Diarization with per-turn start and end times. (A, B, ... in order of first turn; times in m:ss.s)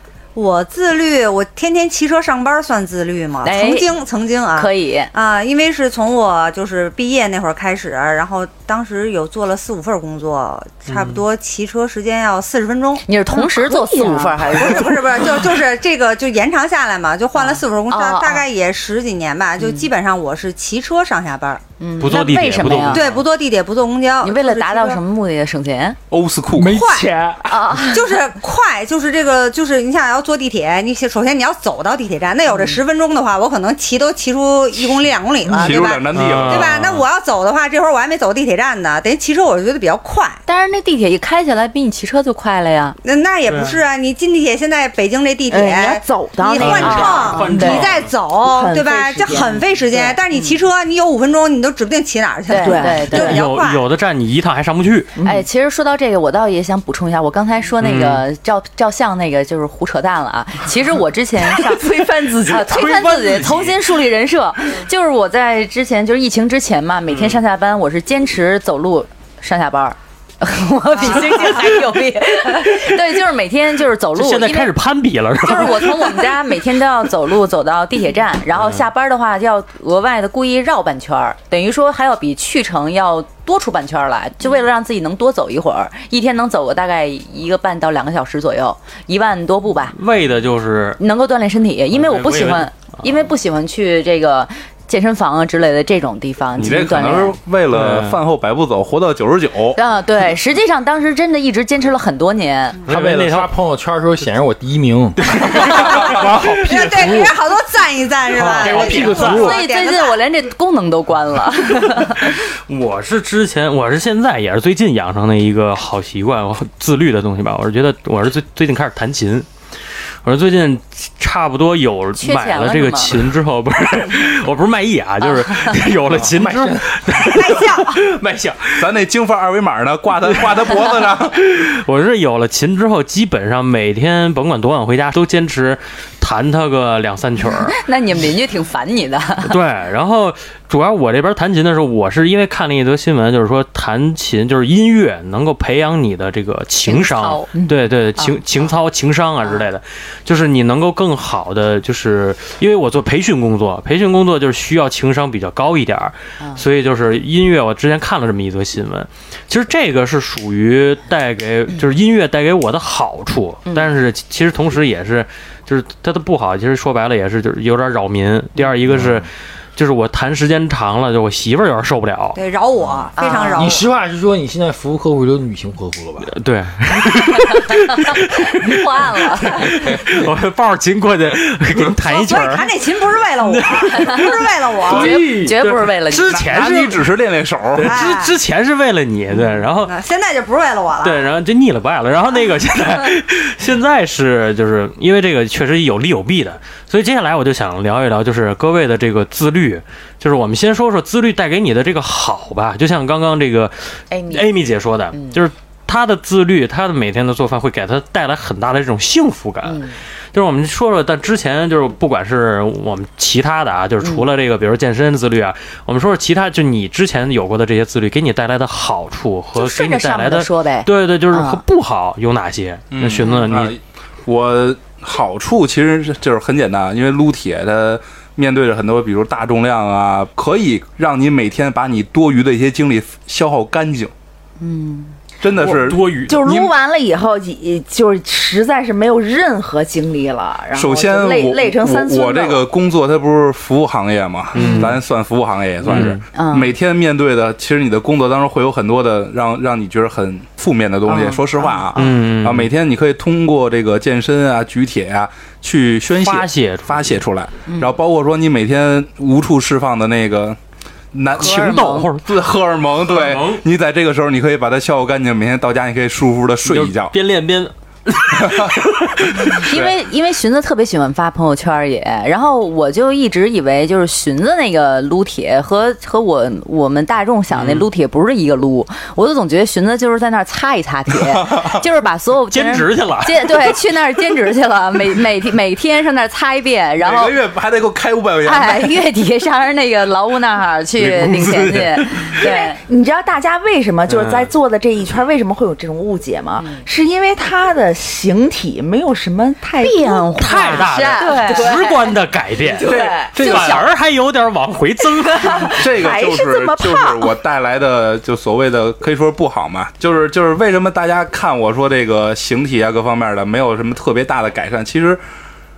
0:00.3-0:13.0 A
0:03.4-0:03.9 B
0:04.6-0:05.1 B
0:10.9-0:11.2 C
0:13.1-0:15.0 B
0:13.3-0:15.0 D
0:14.6-0:21.6 A
0:17.4-0:18.4 B
0:19.6-0:19.9 B
0:21.8-0:23.1 B
0:22.0-0:23.2 C
0:22.9-0:25.0 A
0:24.2-0:26.0 B
0:26.1-0:26.8 E
0:26.5-0:27.4 F
0:26.7-0:27.0 A
0:27.4-0:28.1 B
0:27.9-0:40.4 A
0:32.5-0:32.8 B
0:35.6-0:36.9 E
0:36.1-0:37.0 C
0:40.4-0:43.0 B
0:43.0-0:53.8 A
0:43.5-0:43.8 C
0:45.5-0:47.8 D
0:46.5-0:47.9 B
0:46.6-0:48.1 C
0:48.4-0:50.1 D
0:50.3-0:50.6 B
0:52.5-0:53.4 B
0:52.6-0:53.2 D
0:53.1-0:55.1 C
0:55.2-0:55.4 D
0:55.2-1:01.8 B
0:57.8-0:58.2 C
1:01.4-1:03.2 D
1:02.4-1:14.7 B
1:03.2-1:03.7 C
1:07.1-1:07.4 C
1:11.0-1:11.8 A
1:14.1-1:16.0 C
1:15.4-1:30.0 B
1:29.9-1:31.0 C
1:31.0-1:37.4 B
1:31.9-1:32.7 C
1:36.6-1:39.8 E
1:37.7-1:38.2 C
1:39.8-1:42.8 B
1:42.8-1:43.5 C
1:42.9-1:47.4 F
1:45.3-1:46.0 C
1:46.5-1:50.2 A
1:48.4-1:49.6 F
1:48.4-1:49.4 C
1:49.3-1:52.4 B
1:52.7-1:59.5 C
2:00.2-2:08.9 C
2:02.2-2:03.2 B
2:06.1-2:07.0 F
2:07.2-2:08.0 A
2:08.7-2:11.4 E
2:10.2-2:17.8 C
2:17.7-2:19.6 B
2:19.4-2:52.4 C
2:26.8-2:28.7 B
2:43.6-2:43.9 B
2:48.9-2:49.2 F
2:52.4-2:53.8 A
2:53.2-2:53.7 B
2:53.6-2:56.3 F
2:56.3-2:58.7 C
2:58.4-2:59.8 B
2:59.4-3:02.7 C
3:01.9-3:05.2 A
3:03.4-3:04.3 C
3:03.8-3:06.4 B
3:04.8-3:05.5 F
3:05.0-3:07.1 C
3:06.3-3:08.0 E
3:07.7-3:10.0 C
3:07.8-3:08.4 A
3:09.8-3:11.3 A
3:11.0-3:43.7 C
3:24.1-3:24.5 B
3:25.1-3:25.4 B
3:29.6-3:30.0 B
3:39.5-3:41.6 B
3:42.9-3:54.1 E
3:54.6-3:55.1 B
3:55.4-3:56.7 E
3:55.6-3:56.4 C
3:56.3-4:02.6 D
4:00.7-4:20.6 E
4:04.5-4:04.9 B
4:04.6-4:04.9 C
4:05.8-4:06.2 C
4:06.3-4:06.7 B
4:11.1-4:11.8 B
4:12.0-4:12.7 C
4:16.1-4:17.2 C
4:17.7-4:17.9 B
4:21.1-4:27.1 E
4:21.4-4:22.1 B
4:21.4-4:22.3 C
4:23.0-4:23.6 C
4:26.6-4:29.7 C
4:28.3-4:29.9 E
4:29.5-4:47.4 B
4:37.5-4:37.9 C
4:41.2-4:41.8 E
4:42.5-4:43.7 C
4:47.0-4:49.0 E
4:48.4-4:52.8 B
4:51.0-4:52.4 C
4:52.4-5:03.8 D
4:54.1-4:54.5 C
4:56.6-4:56.8 B
4:59.8-5:02.0 B
5:00.4-5:05.7 C
5:02.8-5:03.8 E
5:05.4-5:07.3 D
5:05.8-5:15.2 E